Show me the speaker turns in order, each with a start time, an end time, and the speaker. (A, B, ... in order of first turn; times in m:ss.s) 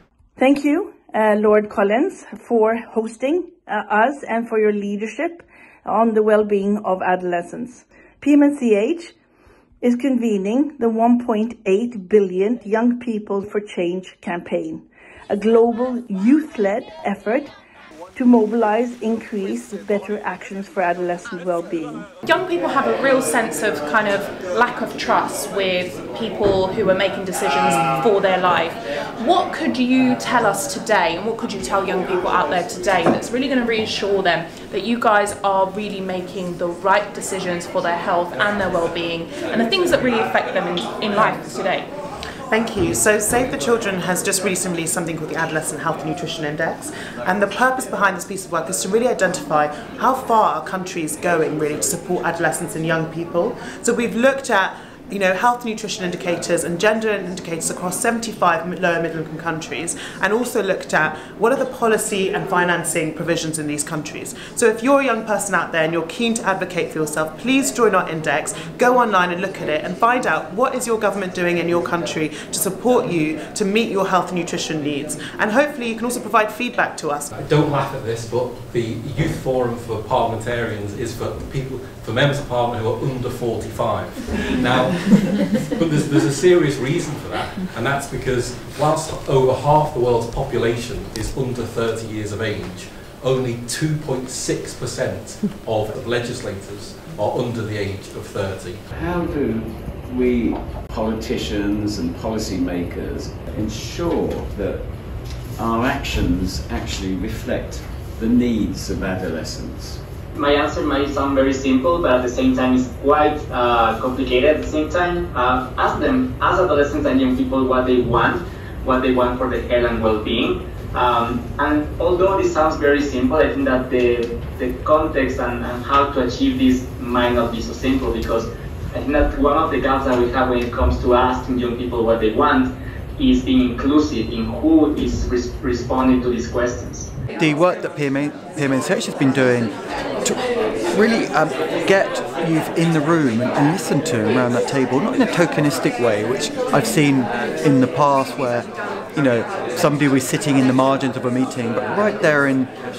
0:00.4-0:09.2 A
0:09.8-0:17.5 A
0:18.2-0:22.1 A
0:22.3-0:41.9 B
0:42.5-1:17.3 C
1:17.3-1:38.8 D
1:38.9-1:50.0 E
1:50.3-2:17.1 F
2:17.4-2:32.7 G